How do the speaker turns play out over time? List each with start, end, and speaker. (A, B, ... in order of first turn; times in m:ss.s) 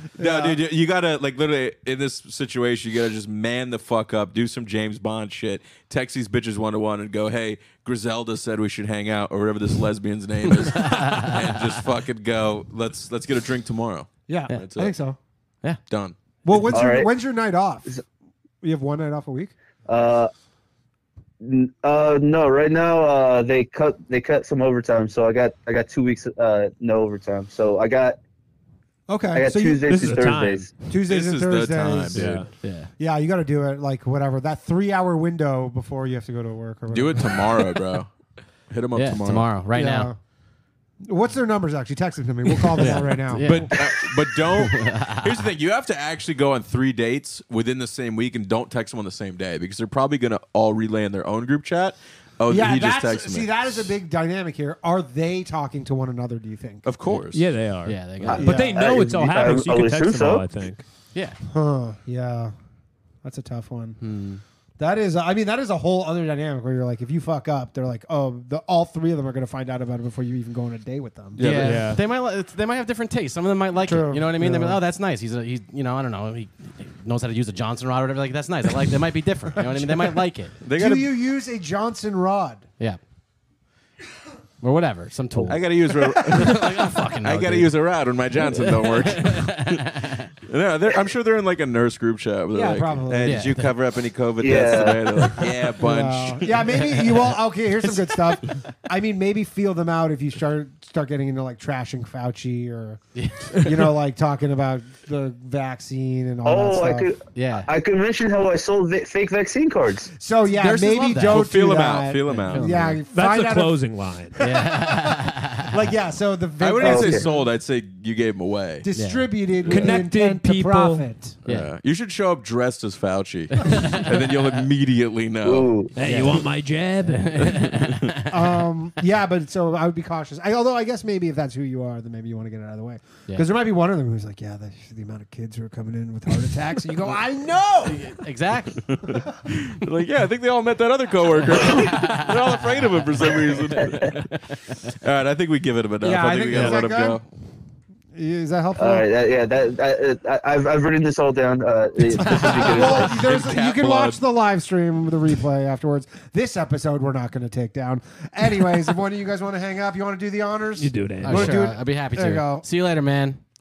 0:00.2-0:00.6 A
0:00.2-0:14.9 B
0:10.5-0:11.6 C
0:14.3-0:15.2 A
0:15.9-0:16.2 B
0:16.4-0:17.9 A
0:16.7-0:17.1 D
0:18.6-0:19.5 A
0:19.9-0:20.3 D
0:21.4-0:28.2 D
0:29.1-0:30.2 A
0:29.3-0:30.7 D
0:29.8-0:30.7 E
0:30.9-0:32.2 A
0:31.1-0:32.4 B
0:32.2-0:32.5 E
0:32.2-0:32.9 C
0:33.0-0:37.6 A
0:36.9-0:38.1 B
0:38.7-0:39.5 B
0:39.0-0:40.1 C
0:39.7-0:40.2 A
0:41.0-0:43.8 A
0:42.8-0:43.9 C
0:43.4-0:53.6 B
0:44.4-0:45.5 C
0:52.5-0:56.9 A
0:56.8-0:57.4 B
0:57.3-1:00.8 E
0:57.8-0:58.6 C
0:58.3-1:00.5 D
0:58.4-0:58.8 A
1:01.5-1:02.5 A
1:03.2-1:04.0 A
1:04.0-1:04.4 C
1:04.8-1:11.4 A
1:11.4-1:11.8 B
1:11.4-1:20.6 C
1:11.5-1:12.0 E
1:13.8-1:14.8 A
1:19.6-1:20.2 A
1:20.6-1:21.1 B
1:20.7-1:22.7 A
1:24.6-1:25.6 C
1:25.4-1:29.9 B
1:25.9-1:26.4 A
1:26.2-1:27.8 C
1:28.4-1:30.3 C
1:30.5-1:36.6 B
1:32.5-1:33.5 A
1:33.2-1:33.7 C
1:34.4-1:35.3 D
1:35.8-1:43.0 A
1:36.8-1:37.3 C
1:43.2-1:43.6 C
1:43.5-1:47.1 A
1:46.4-1:50.1 D
1:47.4-1:47.7 C
1:50.2-1:53.8 A
1:50.5-1:51.5 C
1:51.2-1:53.0 B
1:52.3-1:53.0 C
1:53.1-1:54.4 E
1:54.4-1:55.7 C
1:54.5-1:57.5 A
1:56.6-1:58.9 B
1:56.8-1:57.3 D
1:58.8-2:01.4 A
1:59.0-1:59.3 C
1:59.7-2:01.1 E
2:01.5-2:01.7 C
2:01.5-2:05.7 B
2:03.6-2:04.1 C
2:05.4-2:05.9 D
2:05.9-2:07.6 E
2:06.0-2:06.4 C
2:07.0-2:08.3 C
2:08.3-2:18.1 A
2:17.9-2:18.9 C
2:18.9-2:24.2 B
2:21.5-2:24.2 C
2:24.9-2:27.2 B
2:26.0-2:27.2 A
2:28.1-2:29.1 A
2:28.8-2:33.2 D
2:32.2-2:42.7 A
2:32.2-2:32.8 C
2:32.7-2:34.2 B
2:40.8-2:41.7 E
2:41.2-2:43.4 C